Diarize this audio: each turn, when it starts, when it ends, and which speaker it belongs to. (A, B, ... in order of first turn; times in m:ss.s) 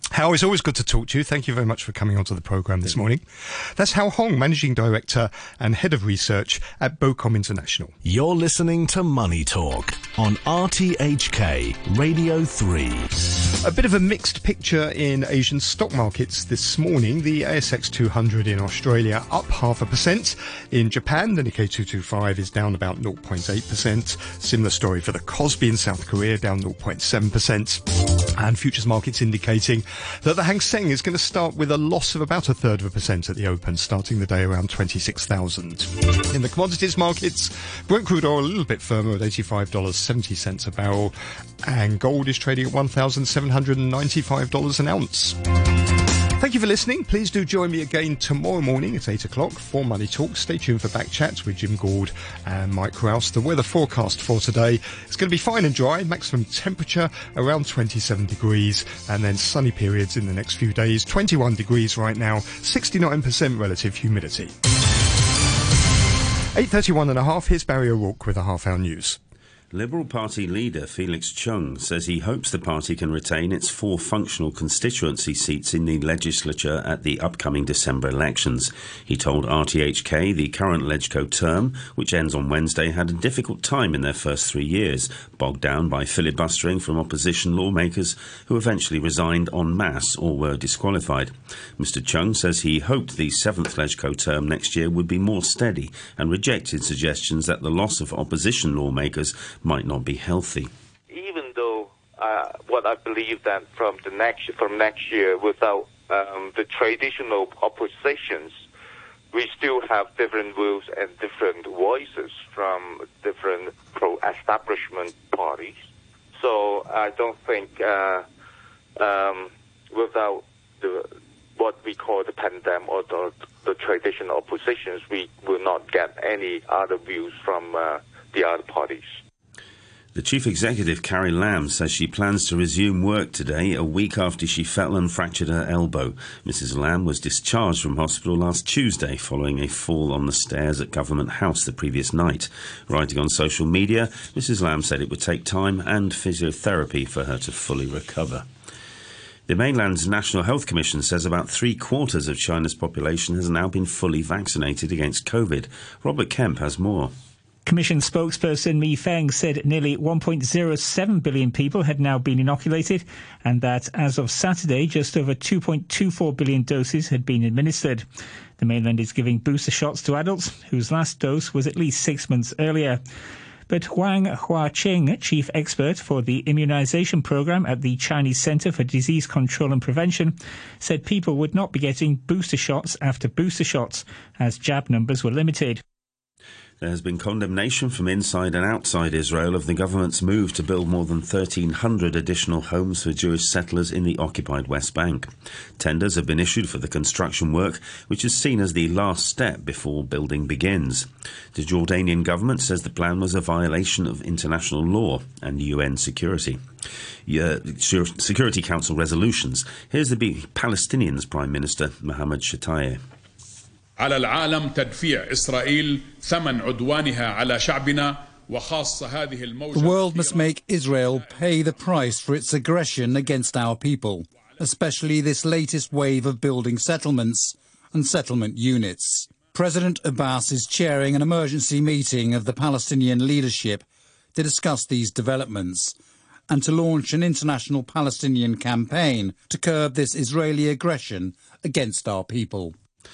0:00.1-0:08.0 A
0:08.0-0:13.3 B
0:13.6-0:45.4 A
0:46.4-1:04.5 A
1:06.5-1:09.2 A
1:09.7-1:40.7 C
1:41.1-1:48.6 D
1:49.3-1:55.8 D
1:56.4-1:58.2 D
1:59.0-2:09.1 D
2:10.1-2:28.4 C
2:29.5-2:37.1 C
2:37.6-2:48.1 E
2:48.6-2:53.0 E
2:53.7-3:05.8 E
3:06.8-3:26.6 C
3:27.3-3:33.0 C
3:34.0-3:40.6 F
3:39.7-3:56.0 G
3:56.5-4:02.8 G